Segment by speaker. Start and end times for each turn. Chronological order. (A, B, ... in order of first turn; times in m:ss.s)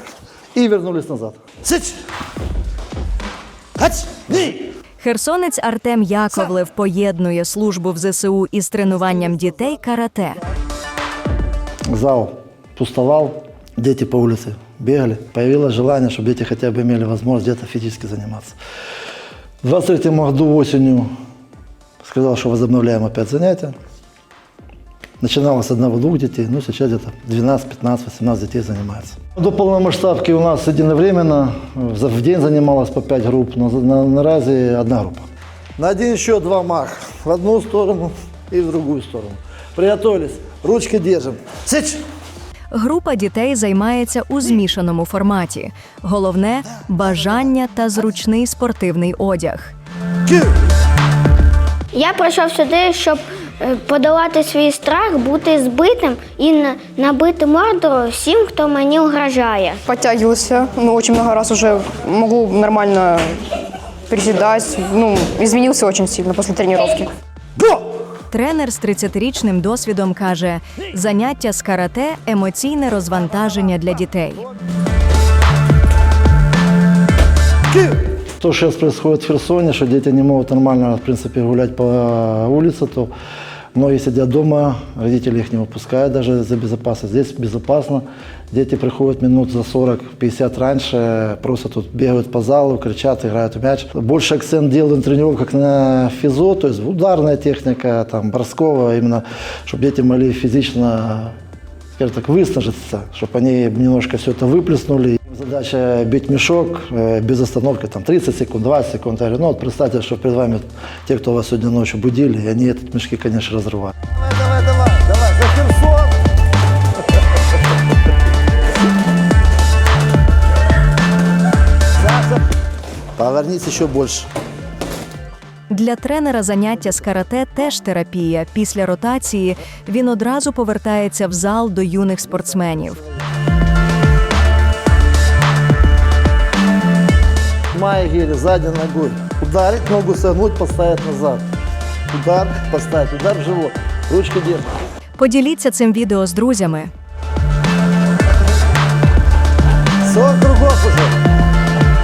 0:00.5-0:02.0 A
0:03.8-0:04.6 A
0:05.0-0:10.4 B
0:11.9-0:18.6 A
0:19.6-0:21.1 A
0:22.0-0:23.8 A
0:25.2-0:35.2 A
0:35.8-0:42.0 A
0:42.7-0:49.7 B
0:51.9-0:59.8 C
0:59.9-1:03.4 D
1:04.1-1:07.1 D
1:08.3-1:14.4 B
1:17.8-1:23.1 A
1:23.8-1:41.4 A
1:42.0-1:56.2 A
2:02.0-2:02.4 A
2:03.2-2:04.3 A
2:05.7-2:13.0 B
2:12.3-2:13.0 A
2:17.7-2:21.4 A
2:22.1-2:24.7 A
2:25.2-2:26.9 B
2:30.0-2:31.2 A